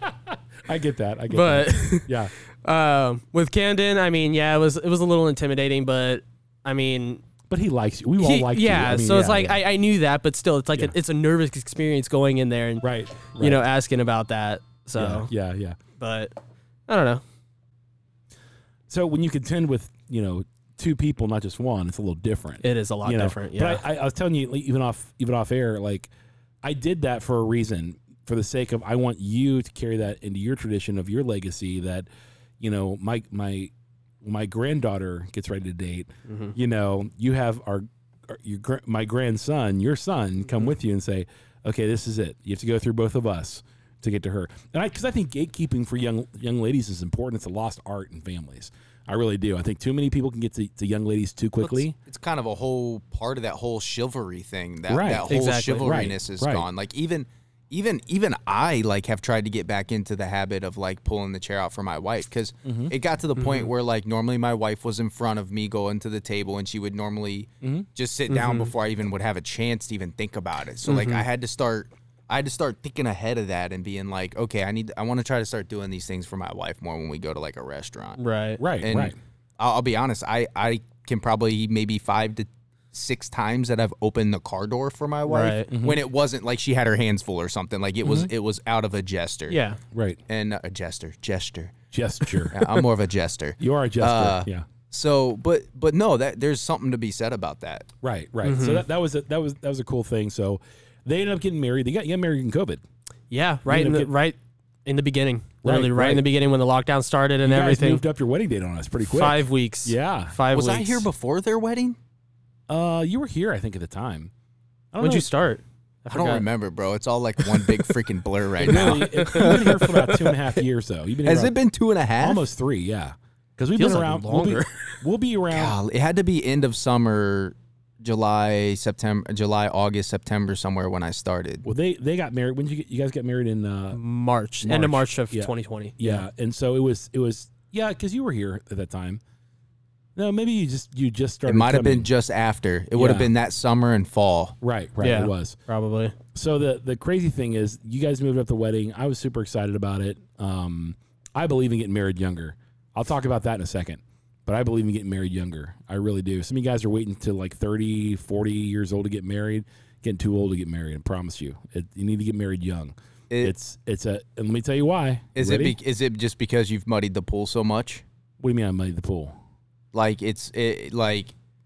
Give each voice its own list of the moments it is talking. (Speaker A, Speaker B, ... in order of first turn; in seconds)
Speaker A: 0.7-2.3, 7.5-9.6, 12.8-13.6, 15.0-15.8, 18.9-26.1, 26.6-32.1, 32.6-33.7, 34.2-51.9, 54.9-55.3, 55.8-56.6, 62.6-62.9, 67.6-67.9, 78.6-79.2, 85.7-86.0, 88.0-88.3, 89.9-90.2, 91.9-92.6, 93.6-94.7, 98.0-102.8, 103.7-104.1, 105.6-106.2, 107.4-110.3, 112.7-114.3, 114.9-115.3, 118.6-121.5, 122.2-125.8, 131.6-134.0, 134.6-139.2, 140.2-142.1, 142.9-143.3, 144.6-145.6, 146.3-165.8, 168.4-169.3
Speaker B: 1.3-2.1, 2.6-7.2, 8.2-15.3, 16.0-16.3, 16.9-17.2, 22.6-23.8, 36.3-36.5, 55.3-55.9, 63.4-63.7, 68.3-68.7, 70.8-71.2, 78.2-78.6, 85.3-85.7, 89.5-89.8, 98.4-98.8, 103.3-108.0, 109.1-111.1, 115.0-116.5, 118.7-120.0, 123.8-125.0, 133.9-136.2, 145.0-146.1
Speaker C: 51.6-78.2, 78.8-89.6, 90.3-91.7, 92.5-97.9, 110.5-112.0, 116.1-120.3, 121.2-122.4, 125.5-131.6, 141.5-144.5, 165.3-168.0, 169.9-171.3